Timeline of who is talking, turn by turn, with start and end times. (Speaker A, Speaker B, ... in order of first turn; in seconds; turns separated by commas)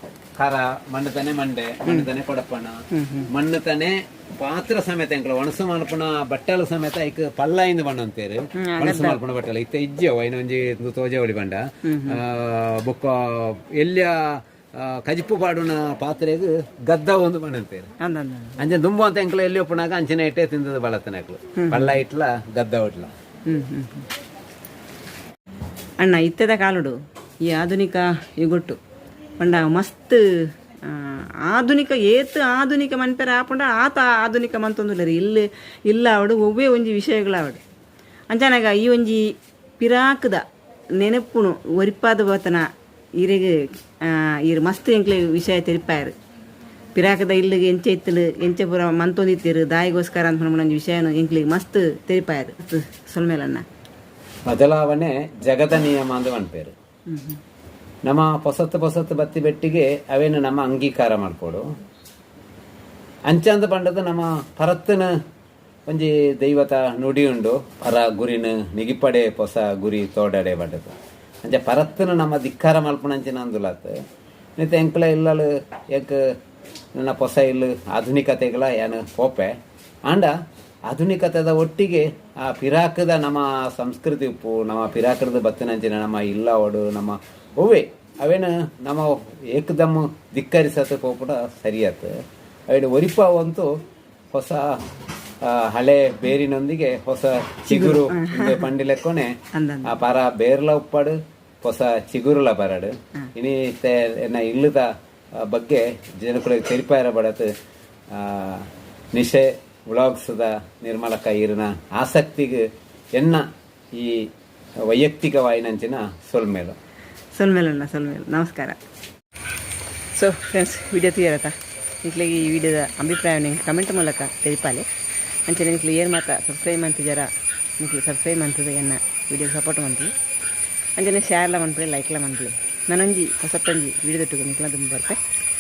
Speaker A: 0.4-17.9, Speaker B: 2.9-3.3, Speaker B: 8.6-9.2, Speaker B: 11.8-12.2, Speaker B: 18.0-18.6, Speaker A: 18.6-23.1, Speaker B: 21.6-21.9, Speaker B: 23.5-24.1, Speaker B: 26.0-28.8, Speaker B: 29.4-30.3, Speaker B: 30.9-37.6, Speaker B: 38.3-40.5, Speaker B: 41.0-46.1, Speaker B: 47.0-53.7, Speaker A: 54.5-56.8, Speaker B: 57.1-57.4, Speaker A: 58.0-61.7, Speaker A: 63.3-65.1, Speaker A: 65.9-74.0, Speaker A: 74.6-76.3, Speaker A: 77.0-80.3, Speaker A: 80.9-92.2, Speaker A: 92.7-93.7, Speaker A: 94.3-94.8, Speaker A: 95.4-107.5, Speaker B: 97.7-98.7, Speaker B: 99.5-100.0, Speaker A: 108.1-114.3, Speaker A: 114.9-116.8, Speaker B: 117.4-118.8, Speaker B: 120.2-124.9, Speaker B: 125.5-127.3, Speaker B: 127.8-130.1, Speaker B: 131.0-135.2